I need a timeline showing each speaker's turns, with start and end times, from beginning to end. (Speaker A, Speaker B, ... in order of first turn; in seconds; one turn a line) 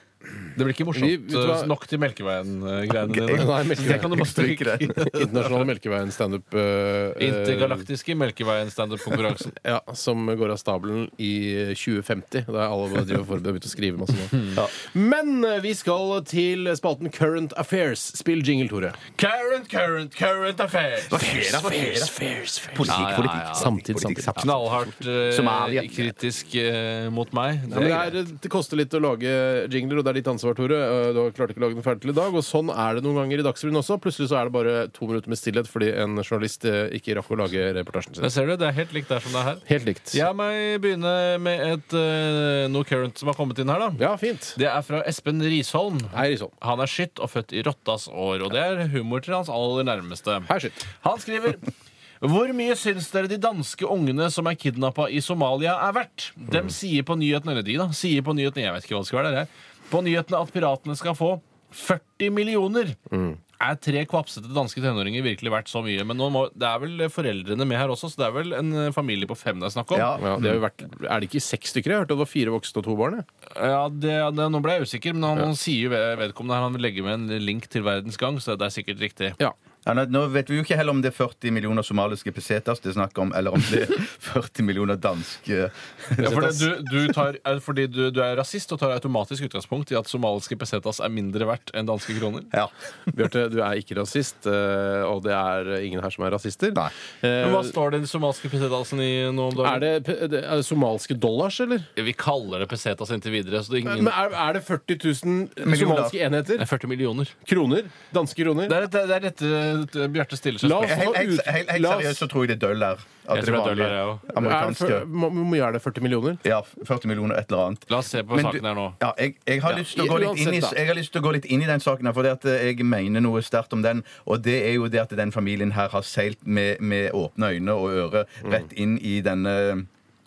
Speaker A: 0.6-5.6
Speaker B: 0.9-1.7
Speaker B: 3.1-7.9
Speaker C: 3.1-5.0
Speaker A: 7.2-9.6
Speaker B: 9.6-19.0
Speaker A: 19.1-22.0
Speaker C: 21.1-22.1
Speaker B: 21.1-23.0
Speaker C: 22.7-26.1
Speaker A: 22.9-23.7
Speaker B: 23.5-24.4
Speaker A: 24.4-28.1
Speaker B: 27.7-38.3
Speaker A: 38.2-44.0
Speaker B: 39.7-40.2
Speaker B: 44.0-44.6
Speaker A: 44.6-51.6
Speaker B: 46.1-46.5
Speaker B: 50.5-50.9
Speaker A: 52.2-63.0
Speaker B: 63.1-63.4
Speaker A: 63.6-70.1
Speaker C: 69.9-70.6
Speaker B: 70.2-73.2
Speaker A: 73.5-79.4
Speaker C: 79.8-86.5
Speaker B: 86.2-86.7
Speaker A: 86.2-92.5
Speaker B: 93.1-97.8
Speaker A: 97.4-99.9
Speaker B: 99.6-101.9
Speaker A: 102.0-104.2
Speaker B: 103.8-106.7
Speaker C: 105.6-106.2
Speaker A: 106.6-107.3
Speaker B: 107.4-108.8
Speaker A: 108.7-111.0
Speaker B: 110.6-112.2
Speaker C: 110.8-115.0
Speaker A: 113.3-114.3
Speaker B: 114.3-116.4
Speaker C: 116.4-129.9
Speaker A: 117.9-119.0
Speaker B: 119.7-120.8